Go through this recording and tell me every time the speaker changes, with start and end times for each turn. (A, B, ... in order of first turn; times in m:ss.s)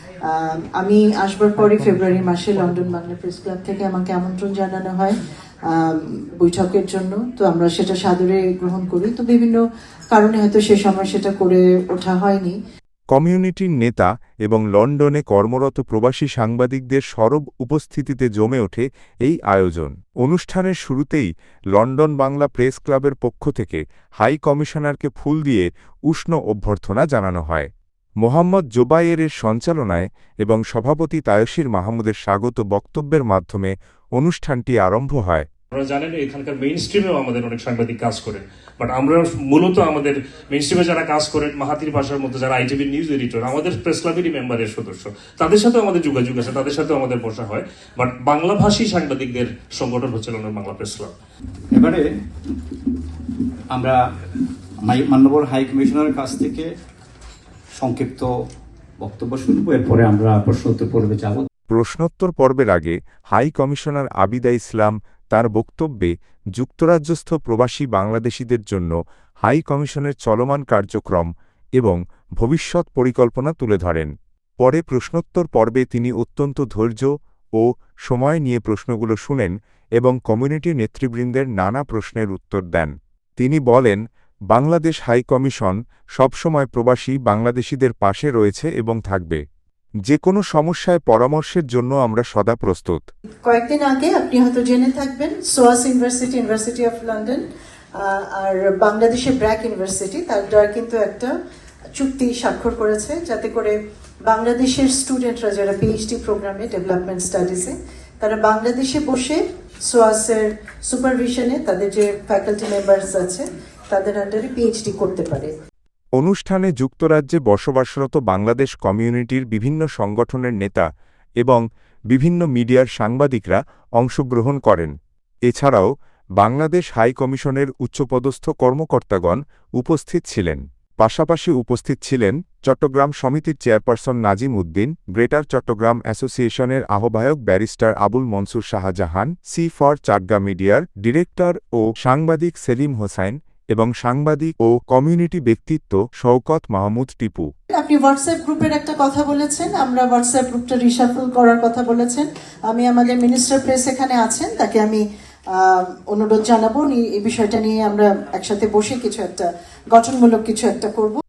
0:00.2-0:05.2 A
0:05.7-0:09.6 A
0:10.1-0:12.6 A
0:13.1-0:27.7 B
0:28.2-0:35.4 B
0:35.7-0:51.1 C
0:51.7-0:52.1 D
0:53.7-0:54.0 D
0:54.8-0:56.7 D
0:57.8-0:58.3 D
0:59.0-1:01.5 D
1:01.7-1:24.0 B
1:24.5-1:29.4 B
1:30.0-1:33.0 B
1:33.4-1:37.4 A
1:38.0-1:41.3 A
1:41.9-1:55.5 A
1:56.2-2:00.8 B
2:01.4-2:04.9 B
2:05.5-2:27.5 B
2:27.7-2:41.2 A